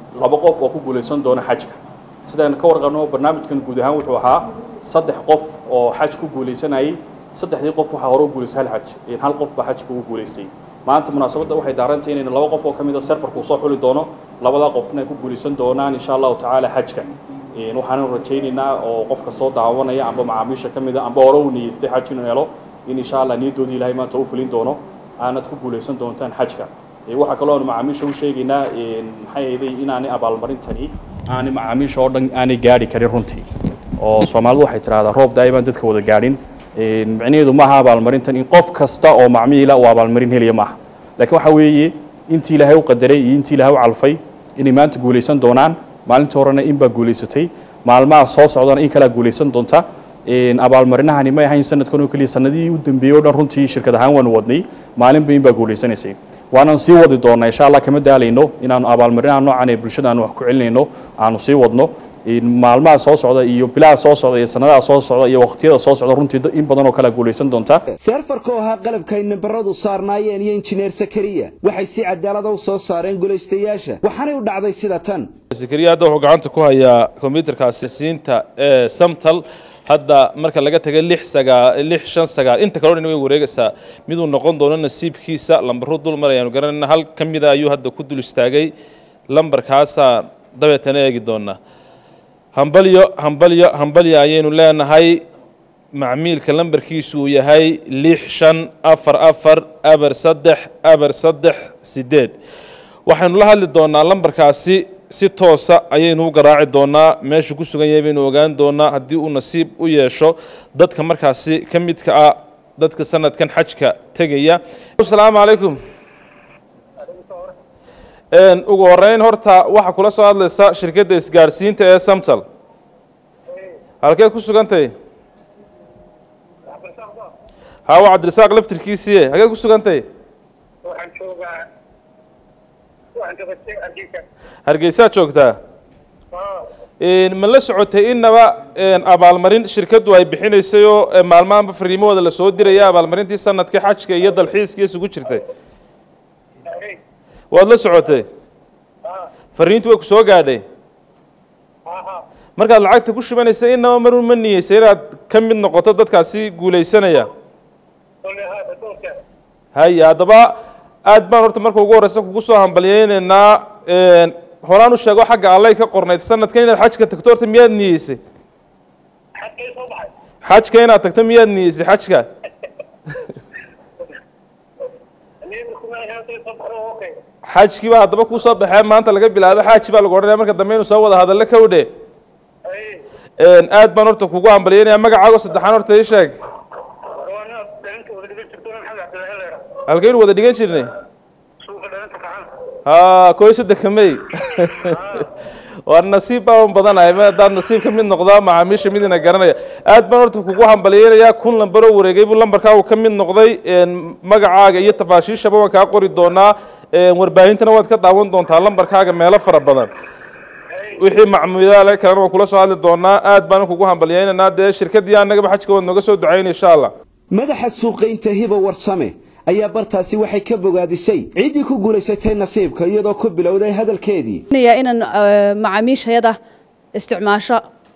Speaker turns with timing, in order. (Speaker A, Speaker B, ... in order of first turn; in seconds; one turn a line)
Speaker A: 0.2-33.5
Speaker A: 34.0-67.8
Speaker B: 68.0-75.3
Speaker C: 75.5-88.7
Speaker C: 89.3-91.6
Speaker C: 92.5-95.2
Speaker C: 95.9-102.4
Speaker C: 103.0-115.8
Speaker D: 117.0-117.5
Speaker C: 118.3-122.4
Speaker C: 124.0-124.9
Speaker D: 126.7-127.3
Speaker C: 127.9-130.0
Speaker D: 130.8-131.6
Speaker D: 133.2-134.2
Speaker C: 134.7-135.6
Speaker D: 136.3-136.7
Speaker C: 137.0-145.4
Speaker D: 146.7-147.0
Speaker C: 147.5-148.2
Speaker C: 149.5-150.6
Speaker D: 151.9-152.2
Speaker C: 152.6-157.3
Speaker D: 158.2-159.2
Speaker C: 159.7-160.5
Speaker C: 161.1-168.2
Speaker D: 169.3-170.1
Speaker C: 170.4-172.2
Speaker D: 175.4-177.2
Speaker C: 177.5-181.9
Speaker D: 182.7-183.0
Speaker C: 183.4-186.4
Speaker D: 187.1-189.7
Speaker C: 189.9-190.9
Speaker D: 191.6-192.5
Speaker C: 192.8-195.0
Speaker C: 195.9-209.9
Speaker C: 211.0-216.9
Speaker B: 217.3-224.4
Speaker E: 224.5-226.3
Speaker E: 226.9-227.6